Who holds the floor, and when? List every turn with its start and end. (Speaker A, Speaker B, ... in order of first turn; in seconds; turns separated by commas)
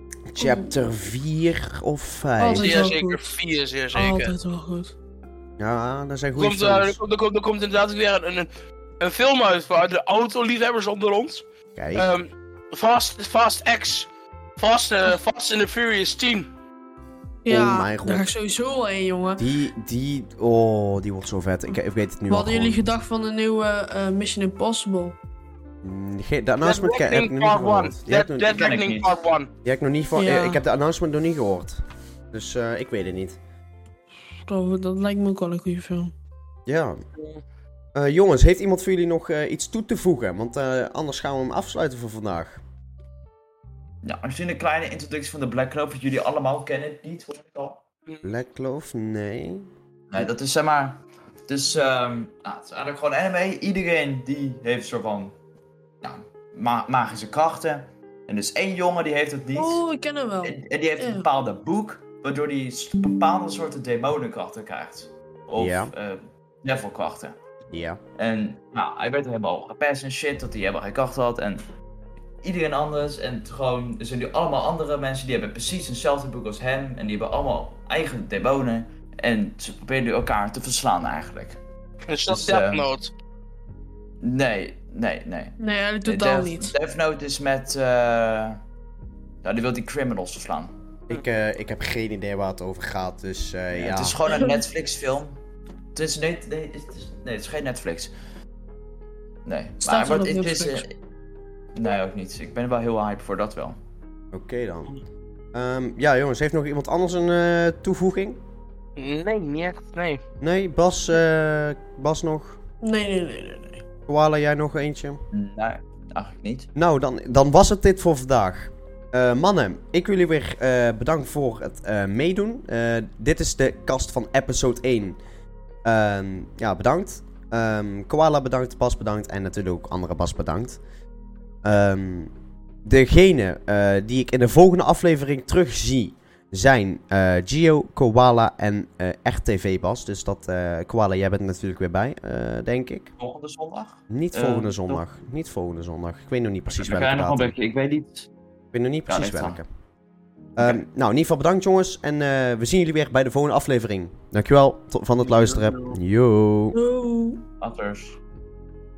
Speaker A: 0.3-2.9, Speaker B: 0.4-0.7, Speaker B: 2.4-3.2, Speaker C: 2.6-4.3, Speaker B: 3.9-4.9, Speaker A: 5.6-7.0, Speaker C: 6.3-16.5, Speaker A: 11.8-12.1, Speaker B: 17.4-19.4, Speaker A: 17.5-18.3, Speaker A: 19.4-22.8, Speaker B: 22.3-25.1, Speaker A: 25.8-28.6, Speaker C: 26.6-29.5, Speaker D: 28.5-29.1, Speaker A: 29.6-31.8, Speaker B: 30.1-30.6, Speaker A: 32.3-33.4, Speaker B: 34.5-36.1, Speaker A: 36.7-37.0, Speaker A: 37.9-42.6, Speaker D: 44.0-47.8, Speaker A: 48.2-49.7, Speaker D: 50.1-55.3, Speaker D: 56.0-59.8, Speaker B: 59.5-61.3, Speaker D: 60.4-67.3, Speaker A: 65.5-65.9, Speaker A: 67.7-68.0, Speaker D: 68.2-71.6, Speaker D: 72.4-81.6, Speaker C: 82.1-83.1, Speaker D: 82.3-82.8, Speaker D: 84.2-88.6, Speaker B: 85.6-86.7, Speaker D: 89.4-90.7, Speaker A: 91.1-94.2, Speaker D: 93.7-95.4, Speaker B: 94.3-94.5, Speaker D: 95.9-98.1, Speaker D: 99.4-101.0, Speaker B: 99.8-100.8, Speaker D: 101.7-103.8, Speaker A: 104.3-105.0, Speaker A: 105.5-108.4, Speaker C: 109.0-110.2, Speaker A: 110.4-112.6, Speaker B: 112.8-113.8, Speaker A: 114.1-115.2, Speaker D: 115.3-116.7, Speaker A: 116.7-125.2, Speaker A: 125.8-130.8, Speaker A: 131.6-132.3, Speaker A: 132.8-143.1, Speaker D: 143.2-145.0, Speaker A: 144.1-147.5, Speaker D: 146.7-148.3, Speaker A: 148.7-149.6, Speaker D: 149.1-149.6, Speaker A: 150.6-156.8, Speaker D: 155.2-156.0, Speaker B: 156.7-157.4, Speaker D: 157.6-158.2